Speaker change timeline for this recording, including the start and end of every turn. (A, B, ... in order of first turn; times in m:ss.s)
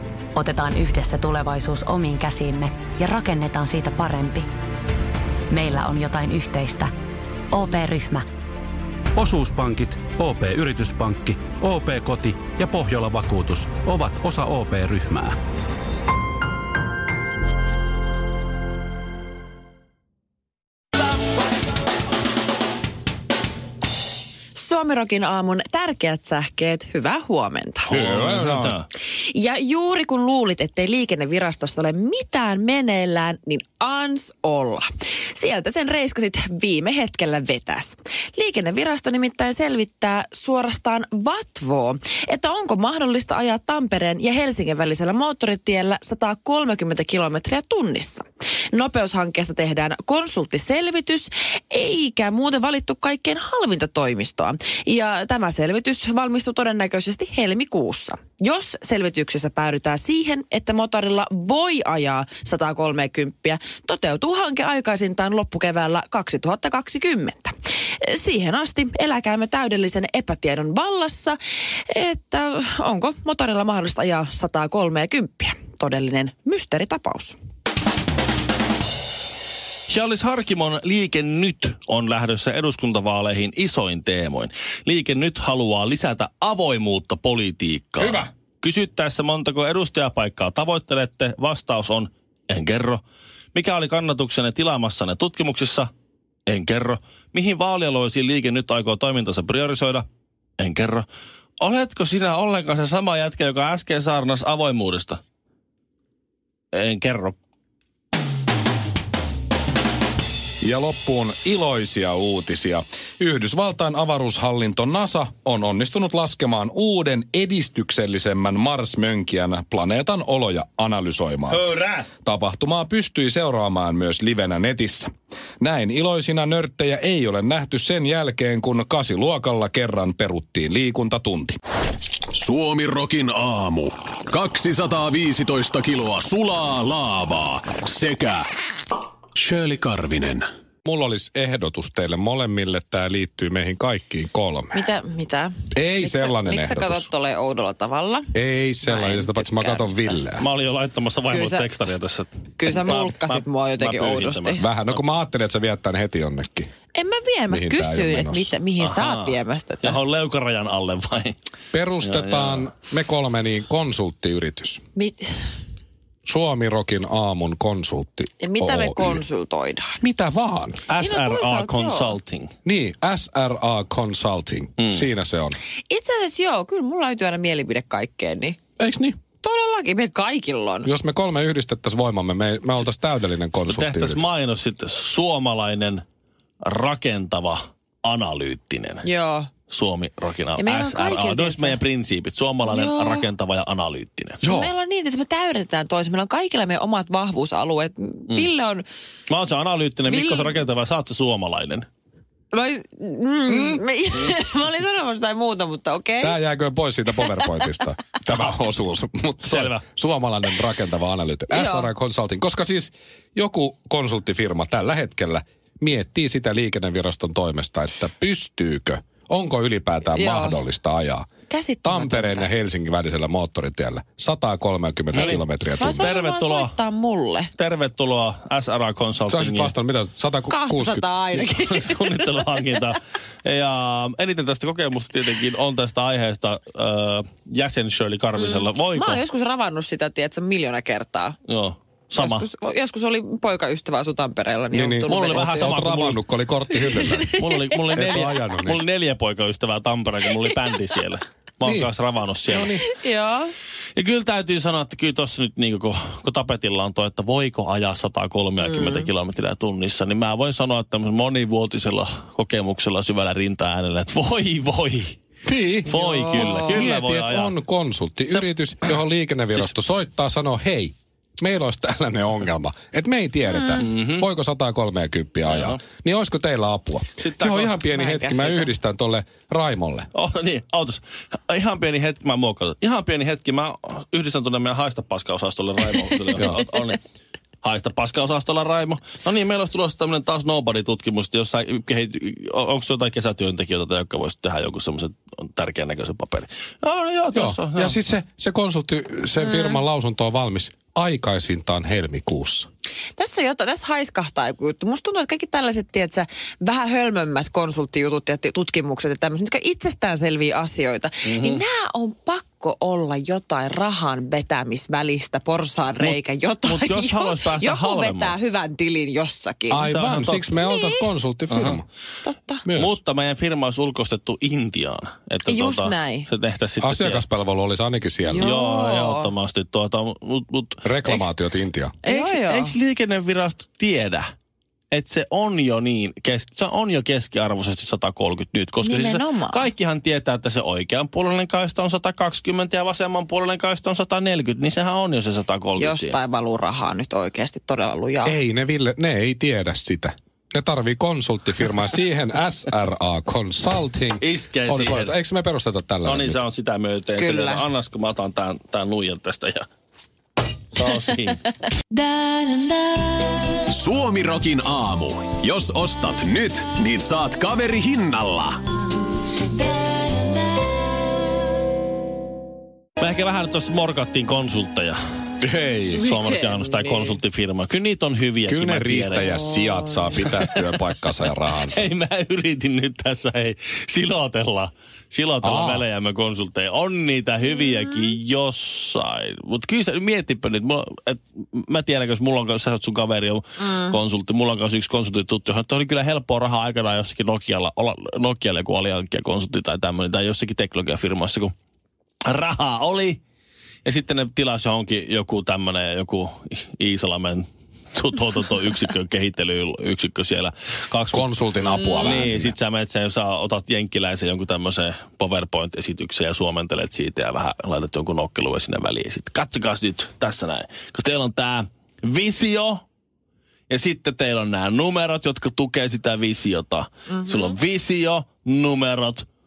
0:00.4-0:04.5 A
0:05.5-0:06.9 A
0:07.5-0:08.2 A
0:09.2-0:15.4 B
0:24.5-0:28.0 C
0:27.9-0:28.8 D
0:27.9-0:28.9 E
0:29.1-1:17.4 C
1:19.9-1:33.0 E
1:28.0-1:28.3 D
1:33.5-1:35.9 E
1:36.5-1:40.1 E
1:40.6-1:41.1 E
1:41.6-1:45.2 E
1:46.7-1:47.4 E
1:50.6-2:01.7 D
2:01.5-2:02.1 E
2:02.2-2:05.1 D
2:05.6-2:11.6 D
2:12.3-2:18.5 F
2:19.4-2:20.5 F
2:20.8-2:24.8 D
2:24.7-2:28.3 C
2:25.7-2:27.1 D
2:28.3-2:30.5 D
2:28.8-2:30.3 C
2:30.4-2:35.0 E
2:31.3-2:31.7 C
2:32.6-2:34.6 C
2:34.6-2:36.7 D
2:36.9-2:40.0 C
2:37.5-2:38.5 D
2:38.8-2:41.4 E
2:41.7-2:44.8 D
2:42.0-2:42.7 E
2:45.0-2:45.3 C
2:46.3-2:49.2 D
2:48.4-2:50.0 C
2:50.0-2:50.8 D
2:50.9-2:52.5 E
2:51.0-2:52.2 C
2:52.6-2:55.6 D
2:55.9-2:58.6 C
2:58.8-2:59.2 D
2:59.4-3:00.9 C
3:00.8-3:04.3 D
3:03.6-3:06.0 E
3:06.6-3:09.1 E
3:09.0-3:09.5 C
3:09.7-3:14.4 E
3:10.6-3:11.8 C
3:12.6-3:13.3 C
3:14.4-3:14.7 D
3:14.4-3:18.8 C
3:19.3-3:21.9 E
3:20.0-3:20.6 C
3:22.5-3:26.4 C
3:26.2-3:41.3 D
3:27.2-3:27.6 C
3:29.4-3:29.8 E
3:31.5-3:31.9 C
3:40.2-3:40.6 C
3:41.5-3:42.5 C
3:41.8-3:46.1 D
3:45.1-3:45.4 E
3:45.2-3:47.5 C
3:45.9-3:46.8 E
3:47.6-3:49.7 E
3:49.3-3:51.1 D
3:50.5-3:52.2 C
3:51.4-3:59.2 E
3:58.4-4:01.4 C
4:01.5-4:02.5 E
4:02.2-4:05.7 C
4:04.7-4:07.4 D
4:05.1-4:06.2 E
4:06.8-4:08.1 C
4:07.4-4:12.8 E
4:07.9-4:08.8 D
4:11.6-4:11.9 D
4:12.5-4:12.8 D
4:12.8-4:13.5 C
4:14.0-4:25.2 E
4:18.7-4:19.1 C
4:25.4-4:40.1 D
4:25.9-4:27.6 E
4:25.9-4:26.9 C
4:33.5-4:33.8 C
4:33.8-4:34.3 E
4:35.5-4:35.8 E
4:37.2-4:37.8 E
4:37.9-4:38.7 C
4:40.1-4:47.0 E
4:47.6-4:58.0 E
4:57.3-5:02.7 D
4:59.4-4:59.8 C
5:03.2-5:19.8 C
5:11.2-5:11.6 E
5:16.0-5:18.4 E
5:19.7-5:21.8 D
5:19.8-5:20.6 E
5:20.6-5:21.1 C
5:21.5-5:21.8 E
5:22.2-5:22.6 C
5:22.7-5:23.0 D
5:22.7-5:27.2 E
5:25.5-5:26.3 C
5:26.8-5:28.5 D
5:28.2-5:29.3 C
5:28.4-5:31.3 E
5:30.8-5:32.0 D
5:32.0-5:32.7 C
5:32.0-5:34.3 E
5:34.9-5:46.2 E
5:38.8-5:39.7 C
5:45.8-5:48.4 C
5:48.2-5:56.4 D
5:54.2-5:55.2 E
5:56.0-5:59.7 E
5:57.2-5:57.6 C
6:00.7-6:01.4 E
6:03.7-6:08.6 F
6:13.0-6:15.0 E
6:15.4-6:16.1 D
6:16.0-6:17.2 C
6:16.0-6:19.3 E
6:18.5-6:21.9 D
6:19.3-6:19.9 C
6:20.1-6:20.8 E
6:21.5-6:41.5 E
6:25.4-6:25.9 D
6:33.6-6:33.9 C
6:42.3-6:43.2 E
6:43.8-7:02.8 E
6:51.1-6:52.5 D
7:03.7-7:09.2 E
7:07.2-7:07.5 C